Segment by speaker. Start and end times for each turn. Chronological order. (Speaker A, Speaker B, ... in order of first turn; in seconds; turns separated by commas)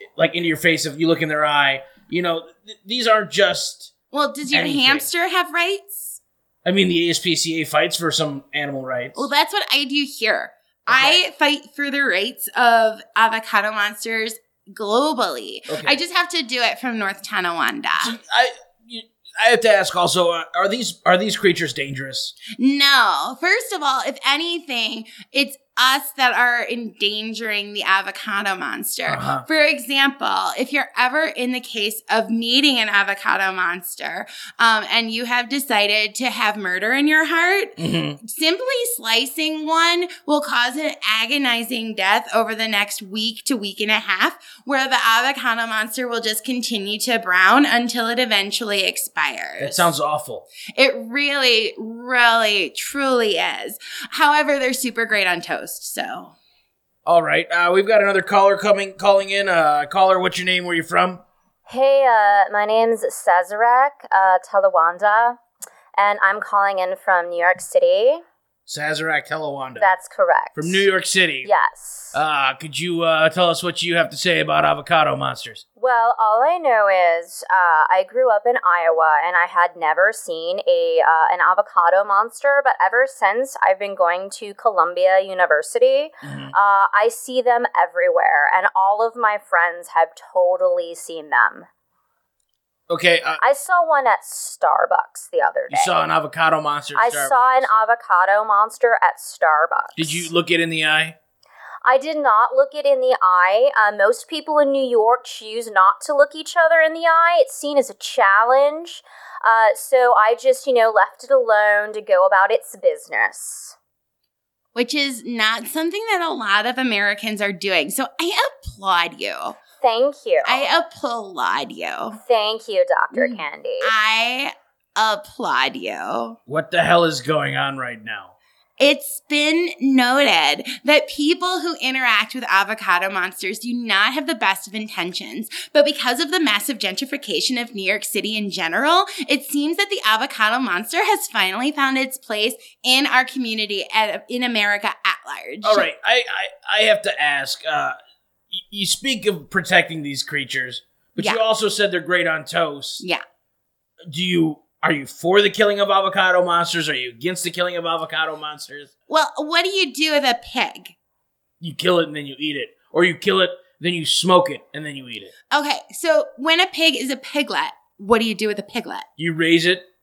Speaker A: 0.2-3.9, Speaker B: 4.1-6.2, Speaker A: 4.5-5.1, Speaker A: 6.7-9.3, Speaker B: 9.2-18.2, Speaker A: 10.9-11.2, Speaker A: 15.7-16.0, Speaker A: 18.0-22.4, Speaker B: 22.6-49.9, Speaker A: 29.1-29.4, Speaker A: 37.8-38.2, Speaker A: 49.6-50.5, Speaker B: 50.8-56.3, Speaker A: 57.1-61.2, Speaker C: 61.7-65.4, Speaker C: 66.0-68.2, Speaker A: 68.7-69.9, Speaker C: 69.8-70.9, Speaker A: 70.5-71.5, Speaker C: 71.4-72.2, Speaker A: 72.1-75.6, Speaker C: 75.8-91.7, Speaker A: 86.2-86.5, Speaker A: 92.9-93.4, Speaker C: 93.4-96.0, Speaker A: 95.7-97.7, Speaker C: 97.0-100.3, Speaker A: 100.0-101.2, Speaker C: 101.8-113.8, Speaker B: 114.8-119.6, Speaker C: 119.8-120.7, Speaker B: 120.4-122.2, Speaker C: 122.1-123.9, Speaker B: 123.1-126.4, Speaker A: 126.5-128.3, Speaker B: 128.8-145.9, Speaker A: 145.6-148.0, Speaker A: 148.5-153.0, Speaker A: 154.1-158.9, Speaker B: 159.1-160.9, Speaker A: 161.6-165.3, Speaker B: 165.5-169.1, Speaker A: 169.2-169.9